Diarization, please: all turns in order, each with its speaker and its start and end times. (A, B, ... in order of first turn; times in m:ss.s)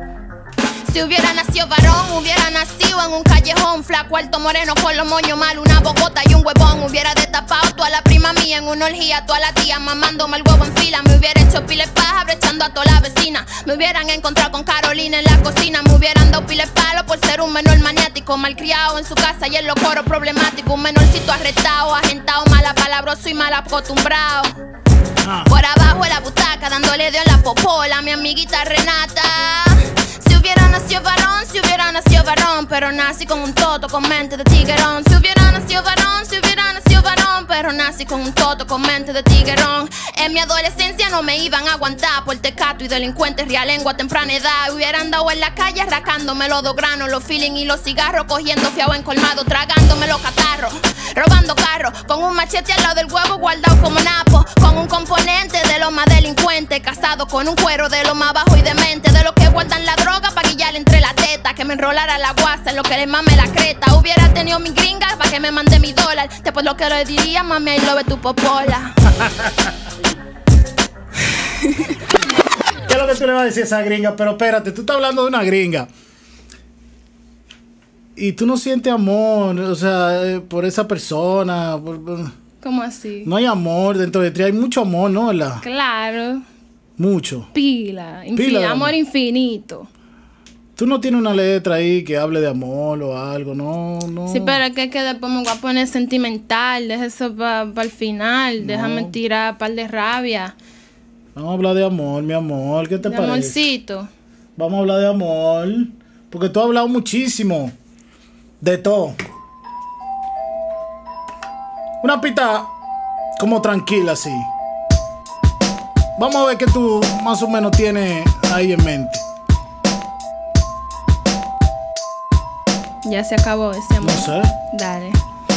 0:00.9-0:24.6 A
0:25.2-0:25.5 B
0:25.5-1:09.0 A
1:09.1-1:09.7 B
1:11.4-1:12.0 A
1:12.9-1:15.9 B
1:18.2-1:22.3 B
1:22.6-1:23.3 A
1:23.2-1:25.6 B
1:25.6-1:26.4 A
1:27.0-1:27.5 B
1:27.5-1:29.9 A
1:28.4-1:29.0 B
1:30.8-1:34.6 B
1:34.3-1:40.6 A
1:38.6-1:39.2 B
1:41.4-1:43.6 B
1:43.0-1:44.1 A
1:44.6-1:47.7 B
1:48.6-1:49.2 B
1:52.0-1:52.7 B
1:53.4-1:54.5 B
1:56.2-1:59.2 B
2:03.0-2:05.2 A
2:04.0-2:04.5 B